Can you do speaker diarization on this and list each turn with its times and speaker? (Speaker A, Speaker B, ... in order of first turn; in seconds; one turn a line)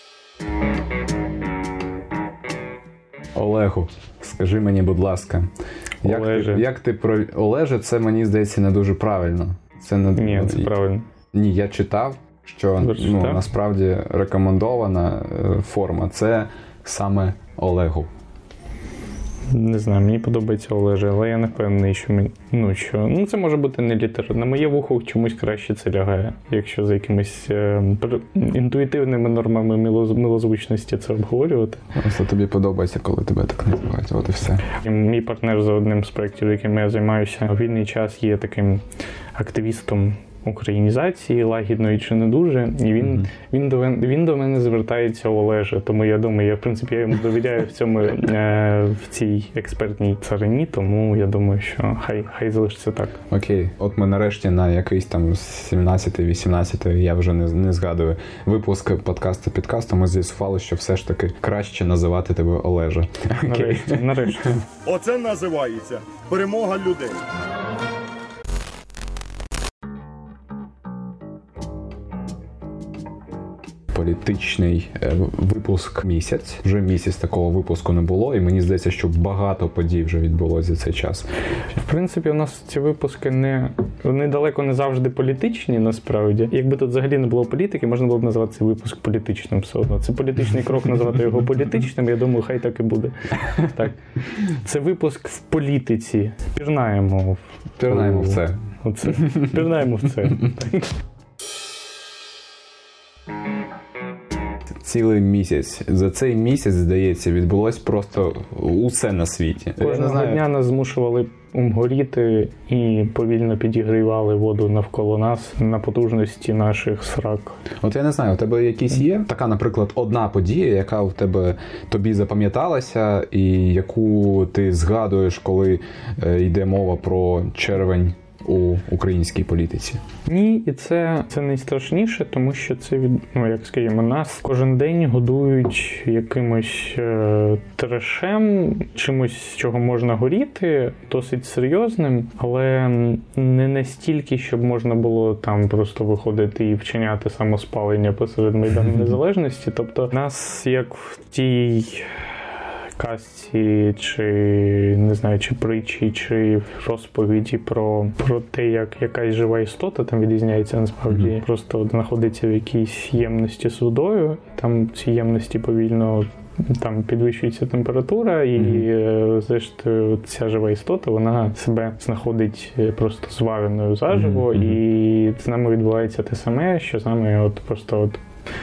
Speaker A: 3.3-5.5
Speaker A: 6.0-10.7
Speaker B: 6.0-6.6
Speaker B: 10.1-11.0
Speaker A: 11.3-18.1
Speaker B: 12.8-13.4
Speaker B: 19.5-31.8
Speaker A: 31.9-34.6
Speaker B: 34.8-38.8
Speaker B: 39.3-53.2
Speaker A: 53.3-64.0
Speaker B: 63.5-64.6
Speaker C: 64.9-67.2
Speaker A: 73.9-81.3
Speaker B: 81.8-100.9
Speaker A: 97.8-98.6
Speaker A: 104.8-110.4
Speaker B: 109.8-117.6
Speaker A: 117.8-130.0
Speaker B: 130.2-152.1
Speaker B: 153.0-178.2
Speaker A: 168.6-168.9
Speaker A: 174.1-174.8